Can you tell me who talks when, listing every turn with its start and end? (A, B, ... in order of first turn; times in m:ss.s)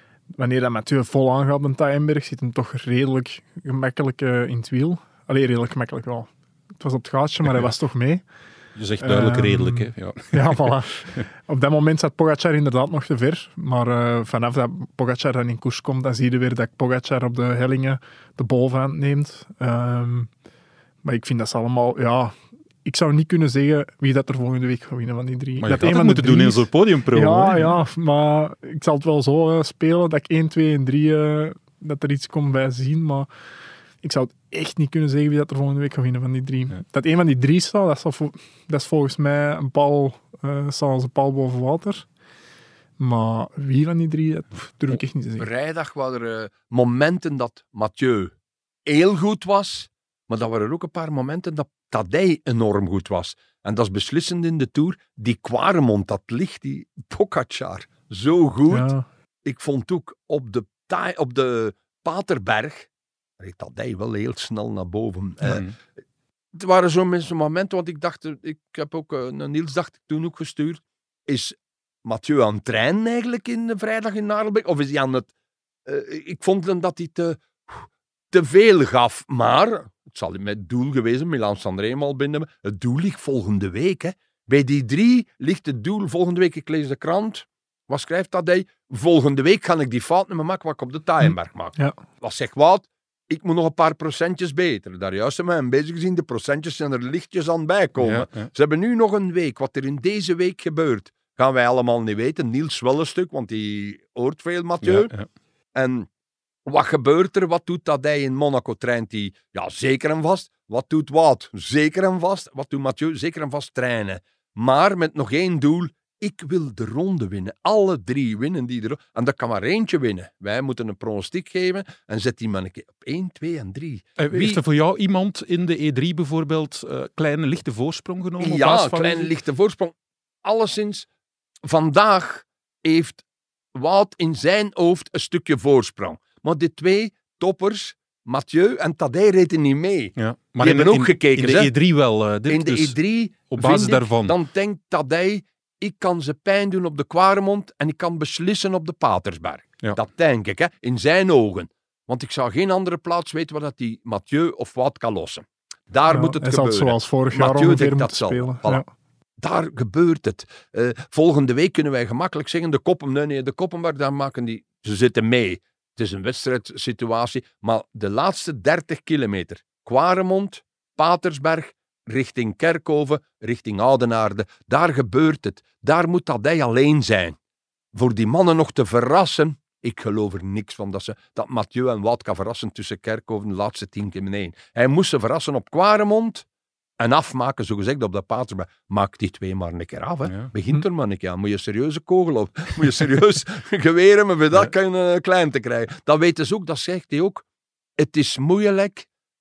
0:00.4-0:08.2 A
0:08.8-0:11.2 B
0:09.0-0:20.3 A
0:21.0-0:33.3 A
0:25.6-0:27.7 B
0:34.0-0:42.0 A
0:43.0-0:45.4 A
0:45.4-0:48.3 C
0:48.8-0:58.9 C
0:58.7-0:59.0 A
0:59.4-1:02.9 C
1:03.4-1:05.6 C
1:05.4-1:05.7 B
1:06.5-1:15.3 C
1:15.8-1:45.1 C
1:38.0-1:38.5 B
1:44.8-1:45.2 B
1:45.7-1:46.1 C
1:46.6-2:04.6 C
2:04.2-2:09.3 B
2:08.4-2:11.0 C
2:11.6-2:13.2 C
2:13.7-2:21.7 C
2:20.2-2:23.0 B
2:22.5-2:38.8 C
2:23.5-2:24.3 B
2:36.1-2:38.8 A
2:39.4-2:57.4 C
2:57.9-3:06.4 C
3:07.0-3:17.4 C
3:18.0-3:19.1 C